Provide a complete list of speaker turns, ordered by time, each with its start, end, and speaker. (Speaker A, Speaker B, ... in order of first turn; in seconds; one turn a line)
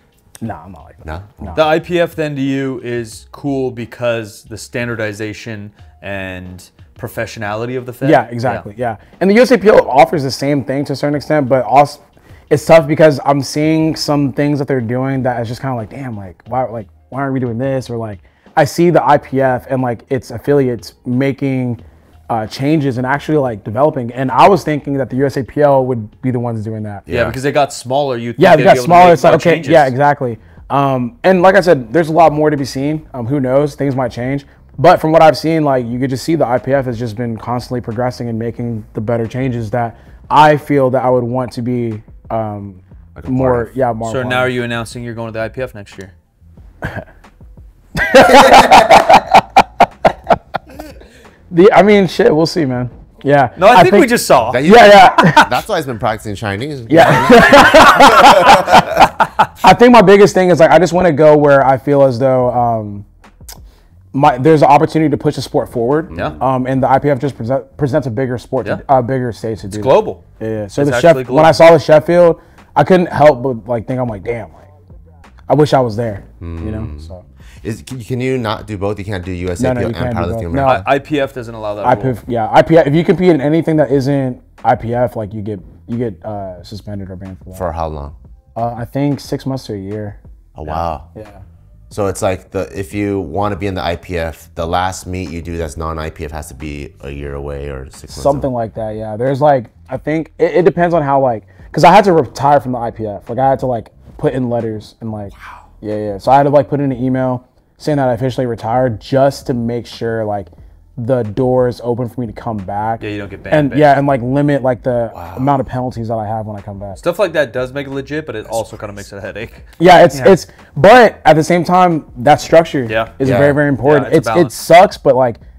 Speaker A: 0.4-1.6
Speaker B: 1.0-1.6
Speaker C: 1.5-8.7
Speaker A: 8.0-21.8
Speaker A: 22.3-27.0
Speaker B: 27.1-27.4
Speaker C: 27.1-29.9
Speaker A: 28.4-44.5
Speaker B: 43.1-43.7
Speaker C: 44.0-46.1
Speaker A: 48.0-49.3
Speaker A: 51.5-54.1
Speaker C: 53.5-54.6
Speaker B: 54.5-59.1
Speaker A: 54.6-55.5
Speaker A: 56.9-58.5
Speaker A: 59.6-63.0
Speaker A: 64.1-74.6
Speaker B: 66.1-66.4
Speaker C: 66.1-66.4
Speaker C: 69.7-70.2
Speaker C: 70.8-71.7
Speaker A: 75.5-77.2
Speaker B: 76.4-80.9
Speaker A: 79.6-80.8
Speaker C: 80.6-82.2
Speaker A: 81.8-87.6
Speaker B: 87.5-88.2
Speaker A: 88.5-90.2
Speaker B: 90.5-91.1
Speaker A: 91.1-91.4
Speaker B: 91.9-98.5
Speaker A: 98.1-117.0
Speaker C: 113.0-114.0
Speaker B: 115.1-115.6
Speaker C: 117.0-120.4
Speaker A: 119.8-125.4
Speaker C: 122.9-123.1
Speaker B: 123.2-123.6
Speaker C: 123.8-124.5